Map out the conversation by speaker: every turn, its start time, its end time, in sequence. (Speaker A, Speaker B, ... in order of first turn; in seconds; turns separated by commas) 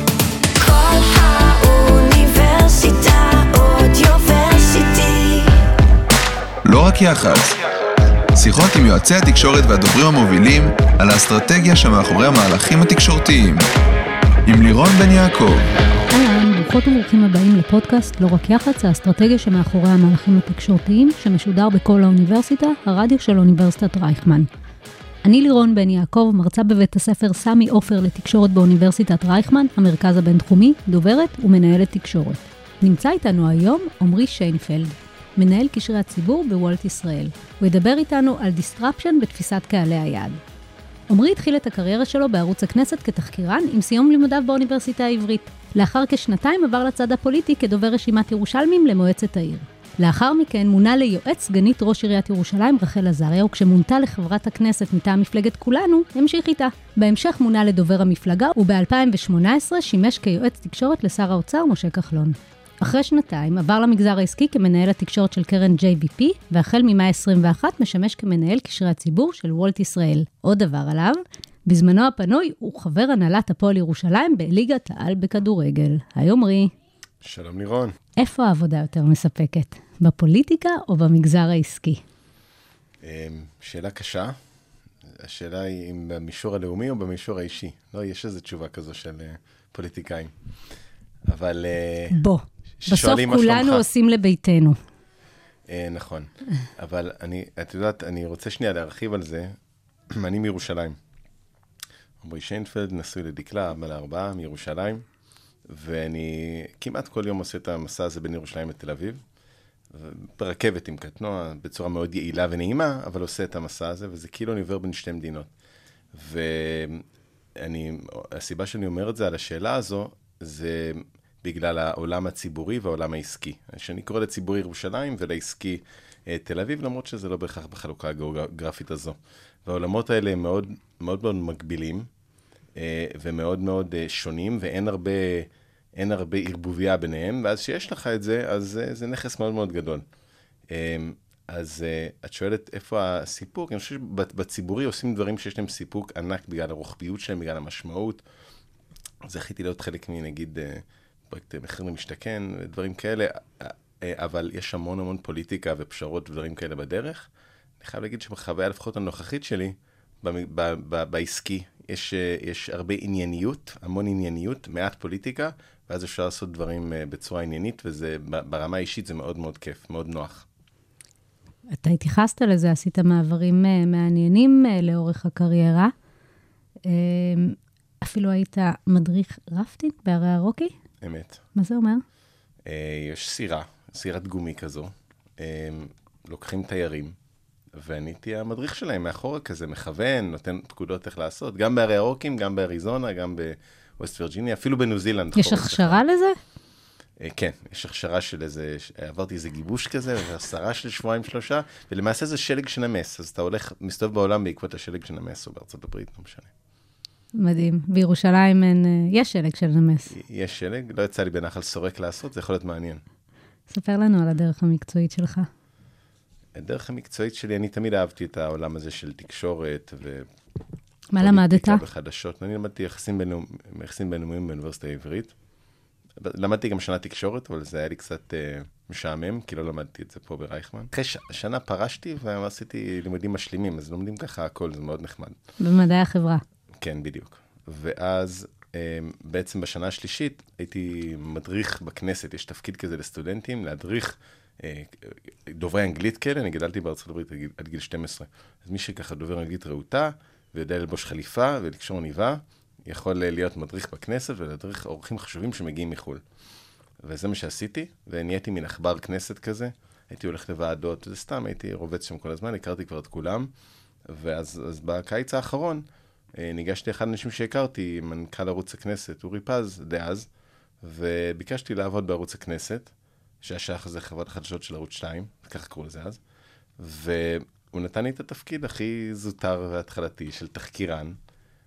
Speaker A: 0.6-5.6, Speaker B: 6.7-7.6, Speaker B: 8.3-13.6, Speaker B: 14.5-15.7, Speaker C: 16.1-24.5, Speaker C: 25.2-40.4, Speaker C: 41.1-76.7, Speaker D: 77.2-78.0, Speaker C: 78.2-82.0, Speaker D: 83.0-84.3, Speaker D: 85.1-90.3, Speaker D: 91.3-92.2, Speaker C: 92.1-94.8, Speaker D: 92.8-93.8, Speaker D: 95.7-99.5, Speaker D: 100.1-101.0, Speaker D: 102.2-105.0, Speaker D: 105.7-109.2, Speaker D: 109.9-115.5, Speaker D: 116.1-117.0, Speaker D: 117.6-132.1, Speaker D: 132.8-140.1, Speaker D: 140.7-148.2, Speaker D: 149.2-157.3, Speaker D: 157.8-170.5, Speaker C: 171.7-175.9, Speaker C: 176.8-180.7, Speaker D: 181.0-181.4, Speaker C: 181.6-182.0, Speaker D: 182.7-187.2, Speaker D: 187.7-196.0, Speaker C: 195.4-196.4, Speaker D: 197.2-206.5, Speaker C: 207.3-210.1, Speaker D: 210.1-213.0, Speaker C: 213.7-215.5, Speaker D: 216.6-220.3, Speaker C: 221.1-221.8, Speaker D: 221.2-225.3, Speaker D: 226.2-235.4, Speaker C: 235.6-236.4, Speaker D: 236.8-256.2, Speaker D: 257.0-263.5, Speaker D: 264.1-270.3, Speaker D: 270.8-276.2, Speaker D: 276.8-281.2